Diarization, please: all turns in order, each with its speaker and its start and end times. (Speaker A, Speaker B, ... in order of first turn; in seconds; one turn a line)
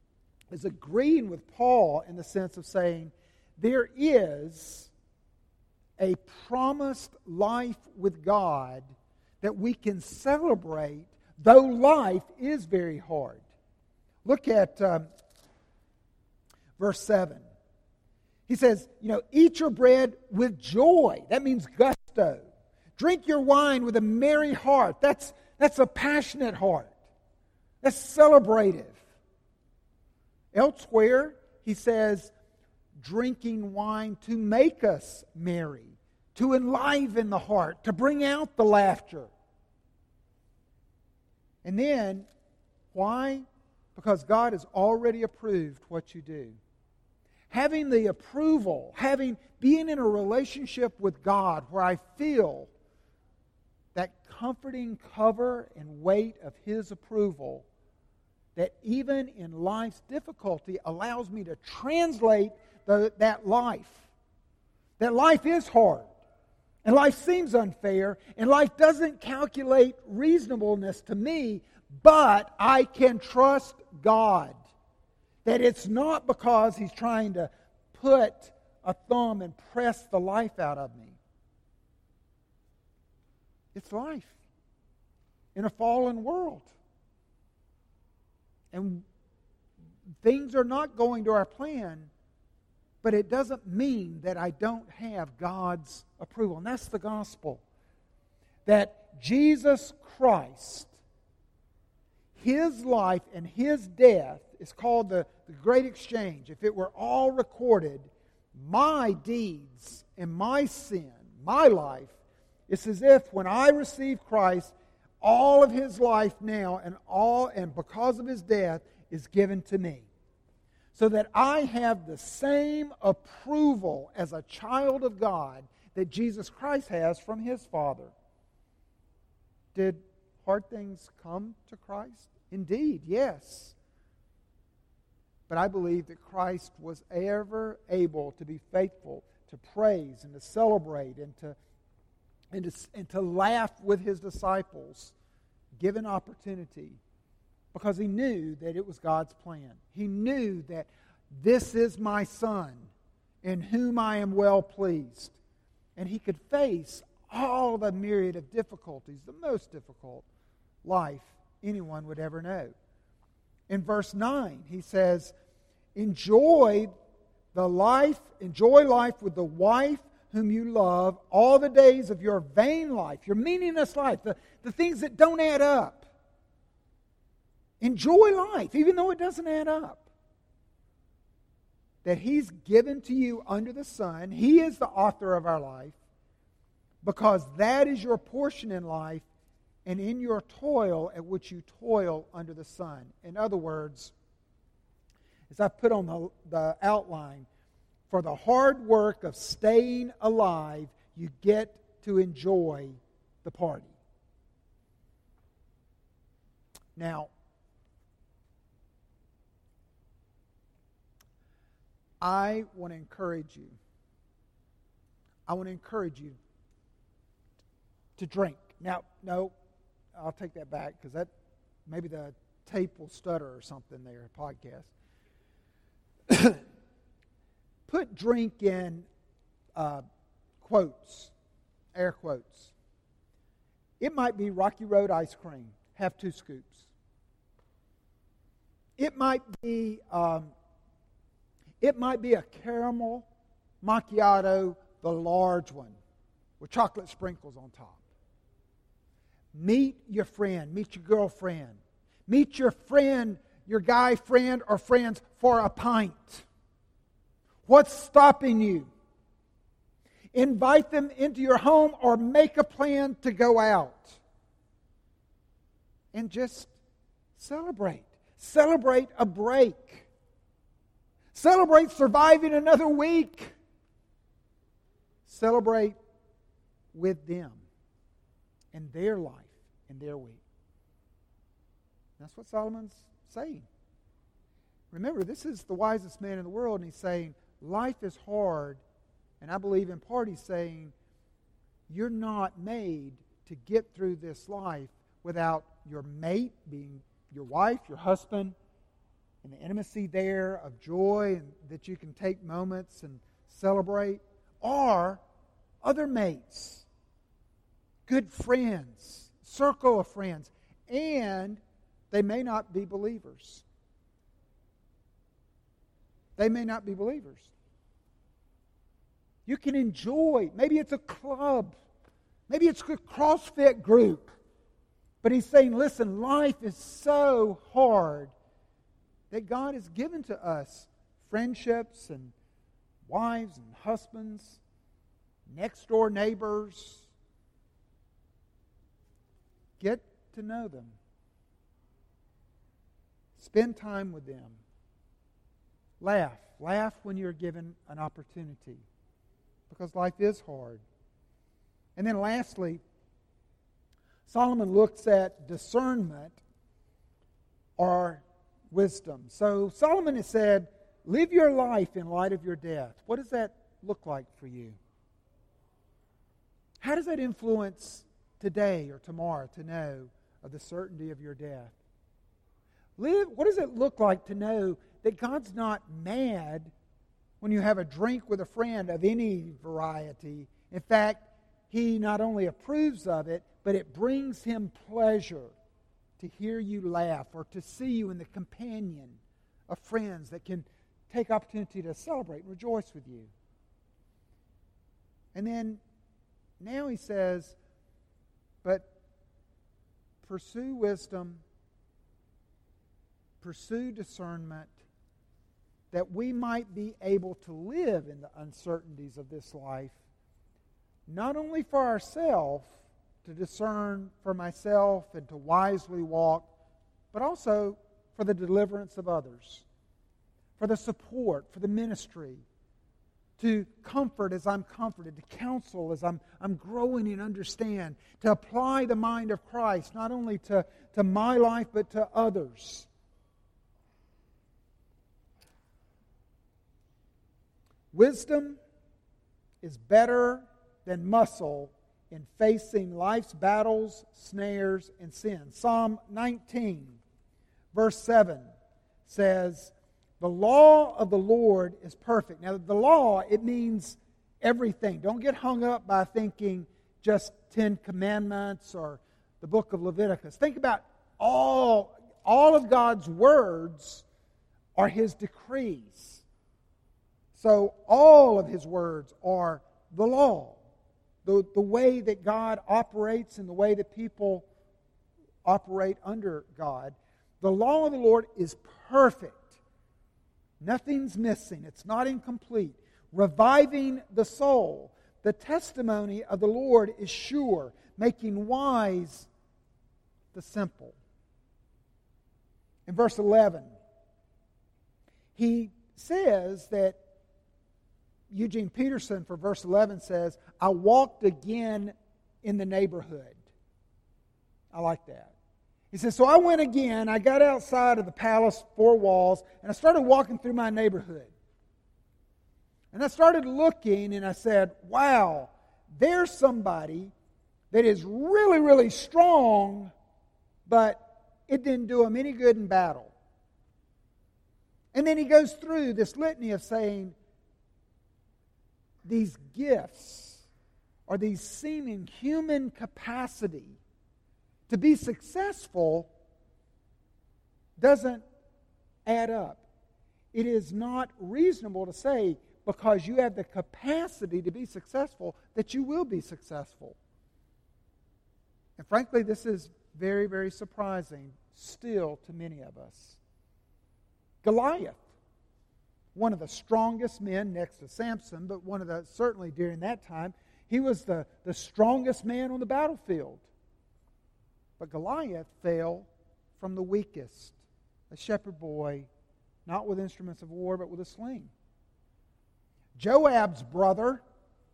Speaker A: 0.5-4.9
Speaker A: 6.0-8.9
Speaker A: 9.4-13.4
Speaker A: 14.2-15.1
Speaker A: 16.8-17.4
Speaker A: 18.5-22.4
Speaker A: 23.0-26.9
Speaker A: 27.8-29.0
Speaker A: 30.5-32.3
Speaker A: 33.0-39.3
Speaker A: 41.6-42.3
Speaker A: 42.9-46.6
Speaker A: 47.5-52.7
Speaker A: 53.9-57.6
Speaker A: 58.5-64.1
Speaker A: 65.0-66.1
Speaker A: 66.8-74.6
Speaker A: 75.4-81.2
Speaker A: 83.7-84.4
Speaker A: 85.5-86.7
Speaker A: 88.7-89.0
Speaker A: 90.2-92.1
Speaker A: 93.0-97.6
Speaker A: 98.7-100.9
Speaker A: 102.3-112.1
Speaker A: 112.7-120.1
Speaker A: 120.9-128.1
Speaker A: 129.7-133.7
Speaker A: 135.5-141.6
Speaker A: 142.5-145.1
Speaker A: 145.8-147.0
Speaker A: 147.7-152.9
Speaker A: 153.4-155.4
Speaker A: 155.9-160.2
Speaker A: 160.8-162.7
Speaker A: 163.7-165.3
Speaker A: 165.9-166.9
Speaker A: 167.5-176.1
Speaker A: 177.8-180.1
Speaker A: 182.0-186.0
Speaker A: 187.0-189.2
Speaker A: 189.8-194.1
Speaker A: 195.5-197.5
Speaker A: 198.1-203.9
Speaker A: 207.0-207.3
Speaker A: 212.2-213.8
Speaker A: 215.5-216.4
Speaker A: 218.2-219.5
Speaker A: 220.1-221.3
Speaker A: 221.9-224.9
Speaker A: 226.3-226.6
Speaker A: 227.9-229.1
Speaker A: 229.8-230.0
Speaker A: 230.6-231.3
Speaker A: 231.9-232.7
Speaker A: 234.0-236.9
Speaker A: 239.0-240.5
Speaker A: 241.8-243.2
Speaker A: 243.8-246.0
Speaker A: 246.6-248.0
Speaker A: 249.5-256.4
Speaker A: 257.6-258.9
Speaker A: 260.3-264.2
Speaker A: 266.1-266.7
Speaker A: 267.4-270.1
Speaker A: 271.3-273.5
Speaker A: 275.2-275.9
Speaker A: 276.9-277.6
Speaker A: 278.7-280.4
Speaker A: 282.2-283.6
Speaker A: 284.9-288.8
Speaker A: 289.4-290.9
Speaker A: 291.9-298.5
Speaker A: 299.4-305.2
Speaker A: 305.8-306.9
Speaker A: 308.1-313.6
Speaker A: 316.4-317.5
Speaker A: 319.5-321.7
Speaker A: 322.5-324.4
Speaker A: 325.2-328.3
Speaker A: 329.3-332.3
Speaker A: 333.1-334.6
Speaker A: 335.5-337.1
Speaker A: 339.8-340.9
Speaker A: 343.4-344.6
Speaker A: 346.0-348.8
Speaker A: 349.7-350.8
Speaker A: 351.9-352.8
Speaker A: 354.3-356.4
Speaker A: 357.8-364.8
Speaker A: 366.8-371.8
Speaker A: 373.0-376.7
Speaker A: 377.4-385.5
Speaker A: 386.2-393.3
Speaker A: 395.3-395.8
Speaker A: 396.6-397.6
Speaker A: 400.2-401.4
Speaker A: 403.4-404.7
Speaker A: 405.9-410.0
Speaker A: 411.1-412.7
Speaker A: 413.2-416.5
Speaker A: 417.1-419.6
Speaker A: 420.6-422.4
Speaker A: 423.4-432.9
Speaker A: 437.9-438.6
Speaker A: 439.6-447.0
Speaker A: 447.7-448.5
Speaker A: 449.1-464.0
Speaker A: 464.8-466.2
Speaker A: 467.3-470.6
Speaker A: 471.2-474.4
Speaker A: 475.4-479.6
Speaker A: 480.6-489.3
Speaker A: 490.3-490.9
Speaker A: 492.9-493.7
Speaker A: 495.3-497.0
Speaker A: 498.3-503.4
Speaker A: 504.7-505.3
Speaker A: 505.9-511.3
Speaker A: 512.9-517.1
Speaker A: 517.7-519.9
Speaker A: 520.7-523.1
Speaker A: 524.9-527.1
Speaker A: 529.0-530.5
Speaker A: 531.1-533.8
Speaker A: 534.7-536.1
Speaker A: 537.8-538.2
Speaker A: 539.0-539.6
Speaker A: 540.3-547.0
Speaker A: 548.8-553.2
Speaker A: 554.4-555.0
Speaker A: 556.1-563.4
Speaker A: 564.8-567.6
Speaker A: 568.1-569.1
Speaker A: 569.6-571.5
Speaker A: 573.0-574.2